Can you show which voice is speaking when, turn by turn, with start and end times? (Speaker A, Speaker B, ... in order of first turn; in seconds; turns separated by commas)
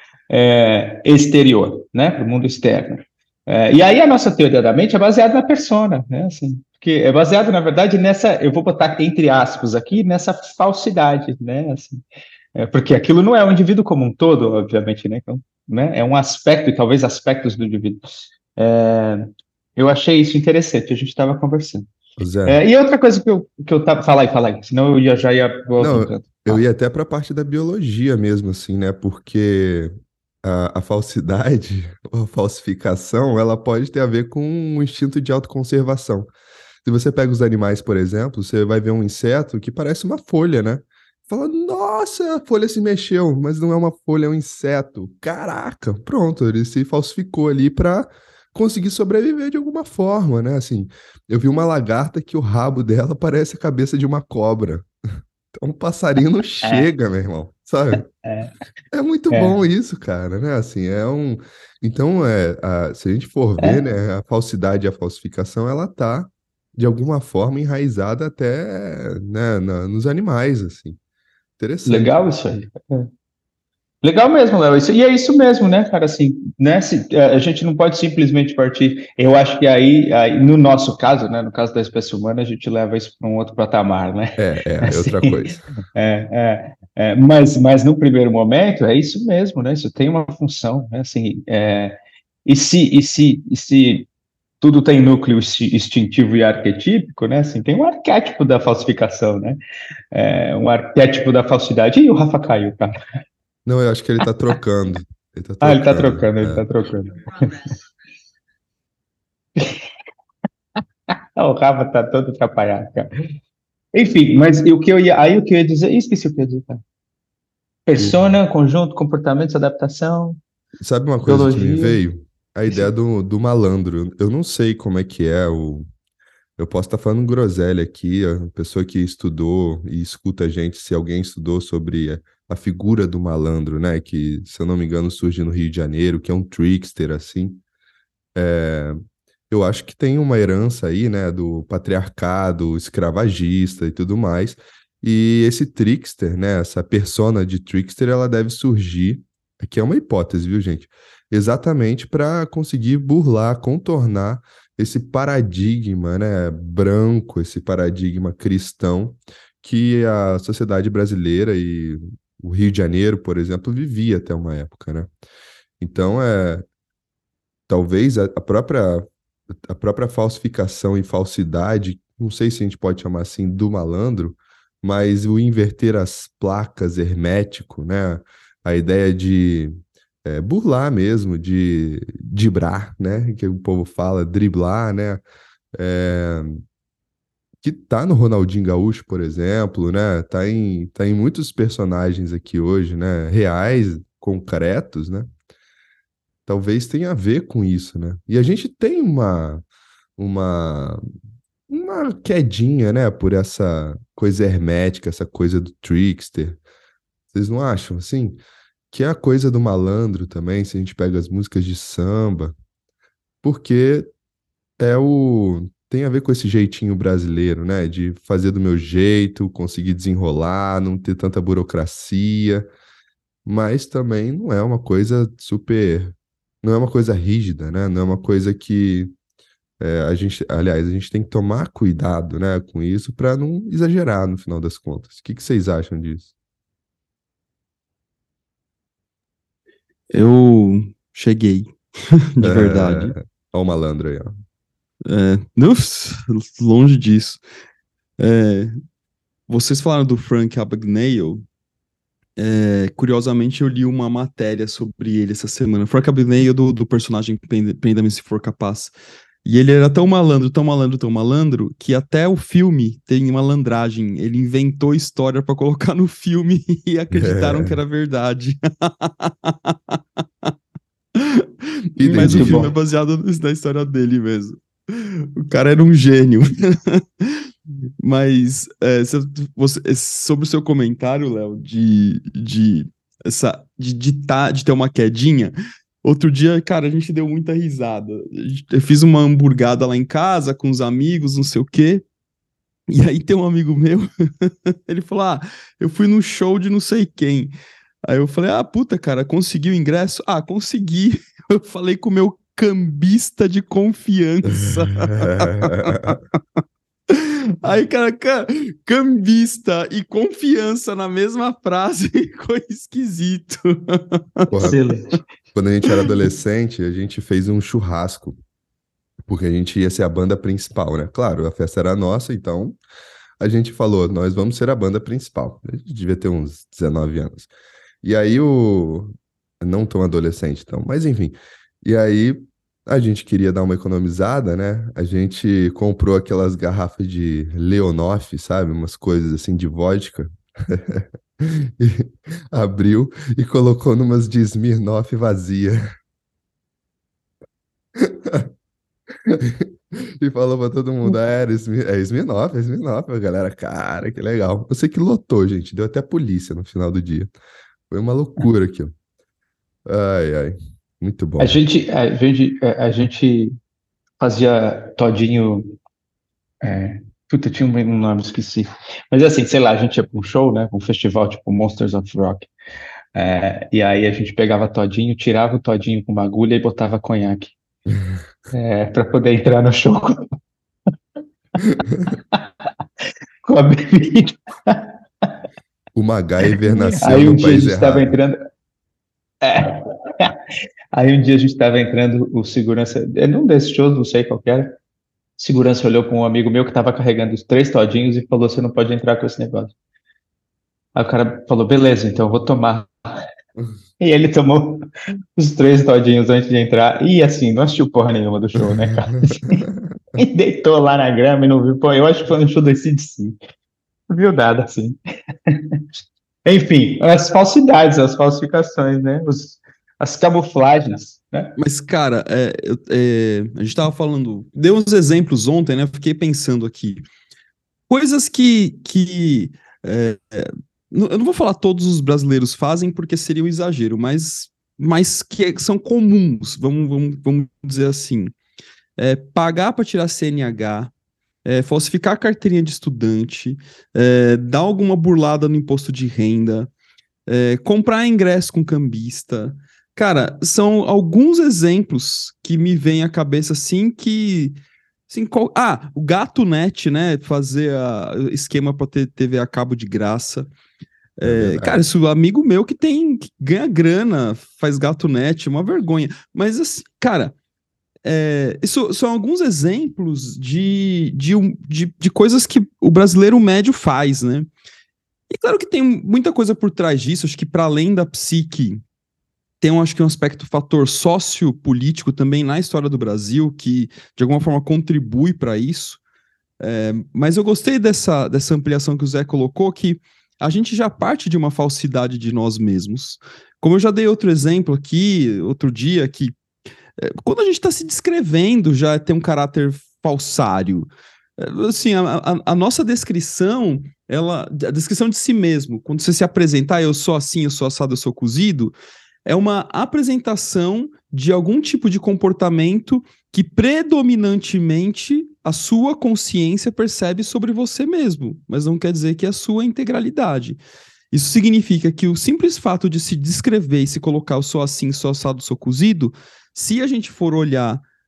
Speaker A: 0.3-12.0, Speaker A: 12.5-18.0, Speaker A: 18.6-21.9, Speaker B: 22.2-22.6, Speaker A: 22.4-26.6, Speaker B: 25.8-29.9, Speaker B: 30.4-36.3, Speaker B: 36.8-54.9, Speaker B: 55.5-58.1, Speaker A: 58.2-58.5, Speaker B: 58.9-71.0, Speaker A: 59.3-59.5, Speaker B: 71.6-72.1, Speaker A: 71.8-73.1, Speaker A: 74.0-94.1, Speaker B: 84.4-85.6, Speaker A: 94.6-99.6, Speaker A: 100.1-102.9, Speaker B: 103.7-106.7, Speaker A: 105.6-107.6, Speaker A: 109.6-109.8, Speaker A: 111.3-113.1, Speaker A: 113.9-116.8, Speaker A: 117.9-120.4, Speaker B: 120.8-125.9, Speaker A: 121.2-122.0, Speaker B: 126.6-137.6, Speaker B: 138.3-139.0, Speaker B: 139.5-165.1, Speaker B: 165.8-166.7, Speaker B: 167.7-169.1, Speaker B: 169.7-179.7, Speaker B: 180.2-185.2, Speaker B: 185.8-186.6, Speaker B: 187.6-195.3, Speaker B: 196.5-199.6, Speaker B: 200.2-201.0, Speaker B: 201.7-206.6, Speaker B: 207.3-208.4, Speaker B: 208.9-212.5, Speaker B: 213.4-214.1, Speaker B: 214.8-222.7, Speaker B: 223.4-229.1, Speaker B: 229.8-236.3, Speaker C: 240.1-243.1, Speaker B: 242.4-244.3, Speaker C: 245.1-247.4, Speaker C: 248.2-248.7, Speaker C: 249.5-251.4, Speaker C: 252.4-258.9, Speaker C: 259.4-270.5, Speaker B: 267.1-267.8, Speaker C: 271.1-277.5, Speaker B: 272.0-272.6, Speaker A: 272.1-272.7, Speaker C: 278.0-292.0, Speaker C: 292.9-297.5, Speaker C: 298.1-306.2, Speaker B: 304.5-306.1, Speaker C: 307.1-314.7, Speaker A: 314.6-315.2, Speaker B: 315.5-318.4, Speaker B: 319.2-322.8, Speaker B: 323.4-327.5, Speaker B: 328.0-345.8, Speaker B: 347.9-348.5, Speaker B: 349.2-357.3, Speaker B: 357.9-358.9, Speaker B: 359.9-361.6, Speaker A: 361.4-363.5, Speaker A: 364.2-365.8, Speaker A: 366.6-372.5, Speaker A: 373.1-377.5, Speaker A: 378.5-380.3, Speaker B: 381.8-382.1, Speaker A: 382.1-382.4, Speaker A: 383.4-384.9, Speaker B: 385.9-388.2, Speaker A: 386.9-388.4, Speaker A: 389.4-390.3, Speaker A: 390.9-394.8, Speaker A: 395.4-399.7, Speaker A: 400.9-402.9, Speaker A: 404.0-404.9, Speaker A: 405.4-409.6, Speaker B: 408.7-410.2, Speaker A: 410.2-413.4, Speaker A: 414.1-415.0, Speaker A: 415.5-415.8, Speaker A: 416.4-421.5, Speaker C: 421.6-427.0, Speaker C: 427.9-438.3, Speaker C: 439.0-440.9, Speaker C: 441.4-446.7, Speaker C: 447.3-454.6, Speaker C: 455.1-460.5, Speaker C: 461.2-467.3, Speaker B: 461.2-461.8, Speaker C: 468.0-474.5, Speaker C: 475.3-478.8, Speaker C: 479.6-486.0, Speaker C: 486.6-496.3, Speaker C: 497.0-508.7, Speaker C: 509.2-527.8